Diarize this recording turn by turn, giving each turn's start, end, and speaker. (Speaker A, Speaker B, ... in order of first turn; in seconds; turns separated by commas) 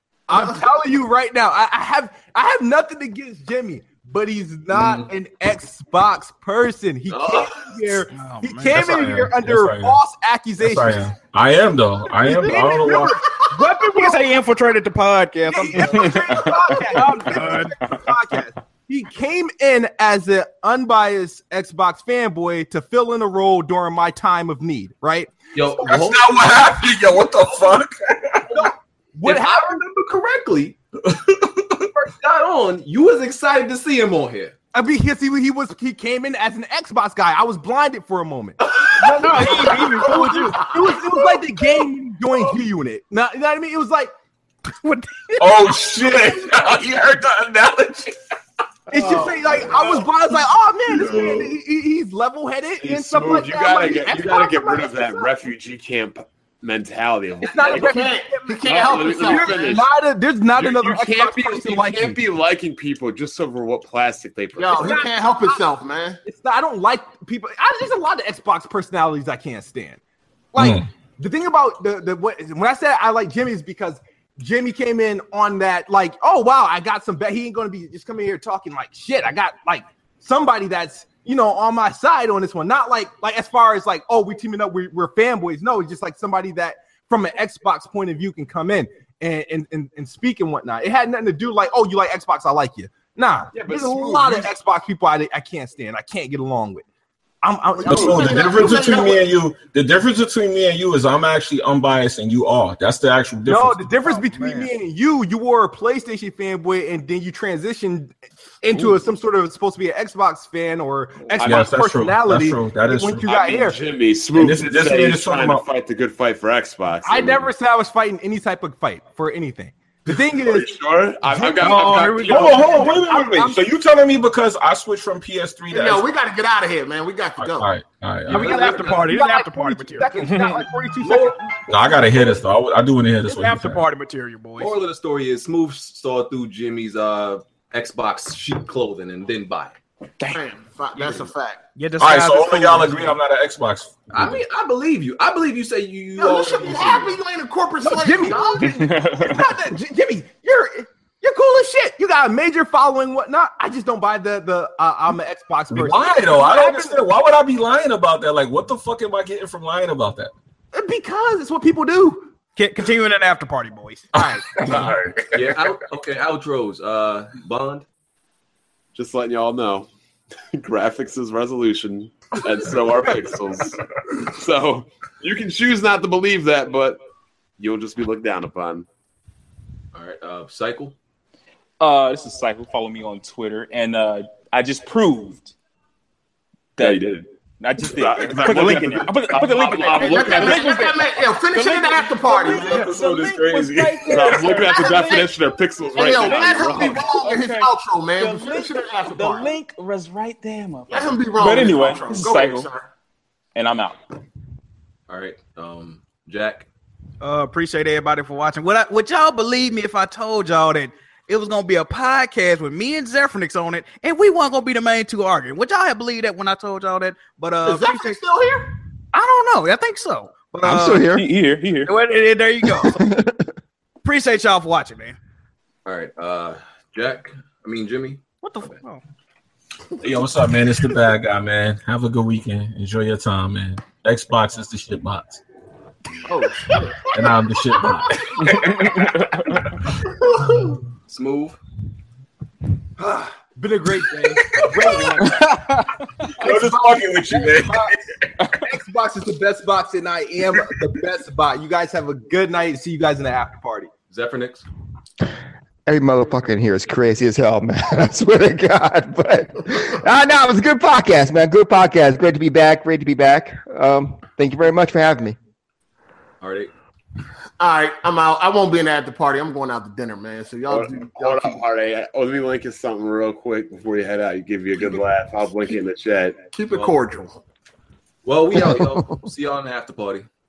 Speaker A: 0.3-11.1, Speaker B: 7.2-8.0, Speaker C: 8.1-8.8, Speaker D: 8.7-10.0, Speaker D: 10.6-13.2, Speaker A: 12.2-14.2, Speaker E: 13.2-13.5, Speaker C: 13.5-17.8, Speaker A: 15.5-25.9, Speaker F: 16.1-16.8, Speaker B: 25.5-26.4, Speaker D: 25.8-28.5, Speaker A: 28.5-29.8, Speaker B: 29.2-30.8, Speaker D: 31.0-31.9, Speaker B: 31.9-34.5, Speaker A: 34.7-44.1, Speaker B: 38.6-38.9, Speaker C: 39.1-40.7, Speaker C: 44.8-45.8, Speaker D: 45.4-48.1, Speaker A: 48.9-55.3, Speaker D: 50.9-51.5, Speaker G: 52.8-59.9, Speaker A: 57.4-62.2, Speaker E: 57.7-59.8, Speaker G: 60.5-65.1, Speaker E: 64.6-66.2, Speaker A: 64.8-65.6, Speaker A: 66.2-70.0, Speaker A: 70.5-96.8, Speaker D: 70.6-70.9, Speaker G: 93.5-94.5, Speaker A: 97.4-98.7, Speaker E: 97.8-99.3, Speaker D: 97.8-103.9, Speaker A: 103.5-113.8, Speaker C: 104.0-104.7, Speaker G: 111.3-111.8, Speaker D: 111.4-113.3, Speaker G: 113.2-117.5, Speaker D: 114.3-115.7, Speaker A: 117.0-123.6, Speaker G: 120.1-123.0, Speaker C: 121.6-122.9, Speaker D: 122.3-126.1, Speaker E: 125.7-127.7, Speaker D: 127.4-128.7, Speaker A: 128.3-131.5, Speaker C: 128.3-130.1, Speaker F: 130.2-130.7, Speaker B: 131.0-131.4, Speaker D: 131.7-133.8, Speaker C: 133.3-134.7, Speaker B: 134.6-139.8, Speaker E: 140.3-141.6, Speaker C: 141.8-143.2, Speaker D: 142.0-144.4, Speaker B: 144.1-147.2, Speaker E: 146.2-148.7, Speaker A: 147.8-157.0, Speaker F: 148.6-149.6, Speaker D: 155.7-160.3, Speaker A: 160.7-162.3, Speaker C: 162.6-164.1, Speaker A: 164.1-164.5, Speaker D: 164.2-165.0, Speaker G: 164.7-165.2, Speaker B: 165.3-167.8, Speaker G: 168.9-169.9, Speaker G: 170.5-177.0, Speaker G: 177.6-178.9, Speaker B: 179.9-180.9, Speaker F: 181.8-185.5, Speaker F: 186.8-194.9, Speaker G: 187.8-190.8, Speaker E: 190.0-192.9, Speaker G: 192.5-192.9, Speaker B: 192.9-193.6, Speaker D: 193.3-194.0, Speaker G: 194.0-197.1, Speaker E: 194.6-195.4, Speaker E: 195.9-199.5, Speaker F: 196.0-202.7, Speaker E: 200.9-202.9, Speaker F: 203.6-204.0, Speaker B: 205.1-206.7, Speaker C: 207.2-218.2, Speaker E: 217.6-218.7, Speaker C: 219.1-221.2, Speaker H: 220.6-221.3, Speaker F: 221.1-221.9, Speaker C: 221.8-223.0, Speaker H: 222.7-223.5, Speaker C: 224.0-225.2, Speaker B: 225.8-228.8, Speaker C: 228.4-229.0, Speaker D: 230.0-235.4, Speaker E: 236.3-237.2, Speaker D: 237.1-239.1, Speaker F: 238.4-239.4, Speaker B: 241.1-241.6, Speaker A: 243.0-245.7, Speaker D: 244.6-245.2, Speaker D: 246.3-248.0, Speaker A: 246.4-248.0, Speaker A: 248.5-253.9, Speaker B: 254.1-254.7, Speaker H: 255.9-265.4, Speaker B: 266.4-266.7, Speaker E: 267.6-271.6, Speaker G: 270.7-276.4, Speaker E: 276.5-277.4, Speaker B: 276.7-277.0, Speaker B: 278.2-280.3, Speaker H: 278.8-279.0